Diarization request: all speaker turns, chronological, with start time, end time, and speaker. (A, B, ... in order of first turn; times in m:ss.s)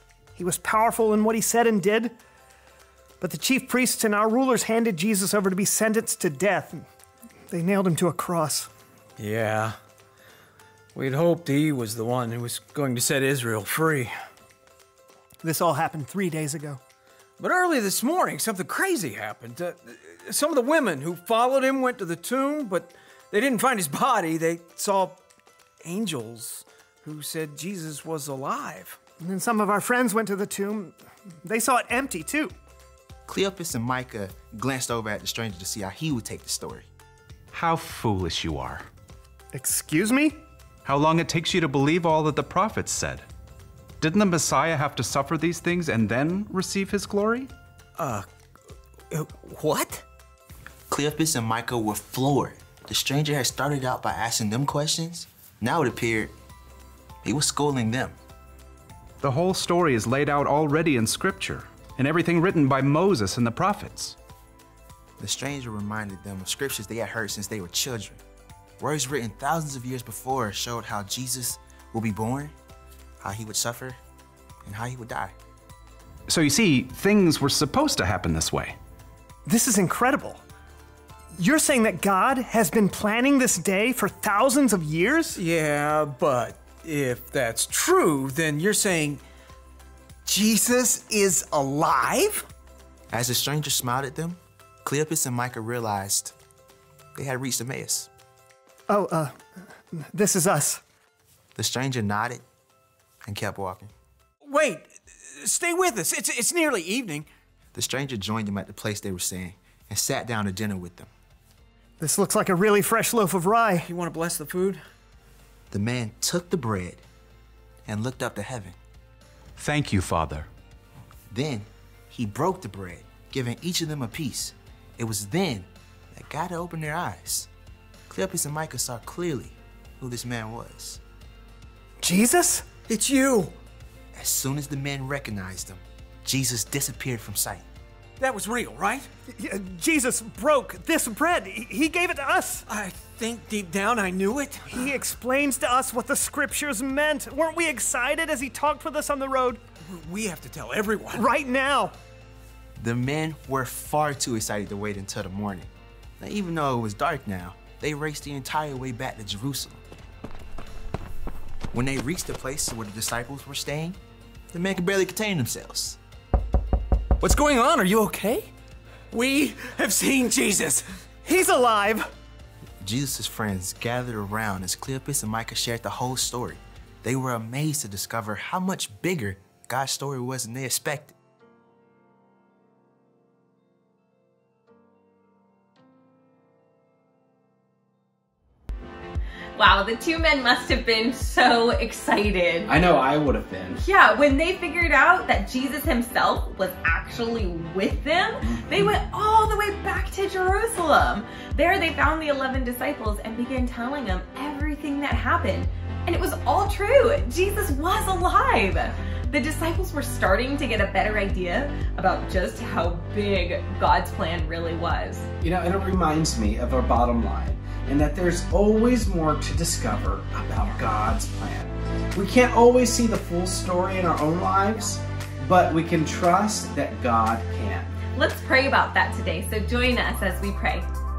0:00.4-0:02.2 A
0:03.2-0:06.8 A
0:07.5-0:08.7 A
0:09.2-0:09.8 B
0:11.0-0:14.1 B
0:15.4-0:16.8 A
0:17.4-0:25.2 B
0:25.8-0:29.0 B
0:29.2-0:32.5 A
0:33.3-0:36.9 C
0:37.5-0:38.9 D
0:39.5-0:40.4 A
0:40.8-0:43.3 D
0:44.0-0:47.5 D
0:48.0-0:48.3 B
0:49.1-0:50.0 B
0:50.9-0:56.3 C
0:57.2-0:58.2 C
0:59.2-1:04.2 D
1:05.2-1:08.2 C
1:08.8-1:12.5 C
1:13.2-1:14.0 C
1:14.6-1:15.3 C
1:16.3-1:18.8 D
1:19.5-1:20.4 A
1:21.4-1:25.4 A
1:25.4-1:29.2 B
1:30.3-1:32.4 B
1:33.1-1:36.3 C
1:37.2-1:38.1 C
1:38.9-1:39.4 A
1:40.0-1:40.8 A
1:41.6-1:42.4 C
1:43.3-1:43.9 C
1:44.5-1:47.3 B
1:47.7-1:51.1 C
1:52.0-1:53.9 A
1:53.9-1:54.8 B
1:55.7-1:57.0 C
1:57.9-1:58.8 C
1:59.6-2:00.5 D
2:01.3-2:07.5 C
2:08.1-2:11.0 C
2:12.0-2:12.7 A
2:12.9-2:13.5 B
2:14.2-2:17.6 C
2:18.2-2:19.1 B
2:19.4-2:22.6 A
2:22.7-2:24.9 B
2:24.7-2:29.6 A
2:29.9-2:31.2 B
2:31.1-2:31.9 A
2:32.8-2:35.7 C
2:36.2-2:39.8 C
2:41.7-2:44.0 C
2:44.5-2:46.0 C
2:47.2-2:48.5 B
2:49.1-2:50.8 B
2:51.2-2:52.1 A
2:52.8-3:01.1 C
3:09.6-3:12.7 E
3:12.7-3:13.8 F
3:13.8-3:35.3 E
3:18.4-3:19.0 F
3:35.4-3:48.0 F
3:48.1-3:50.9 E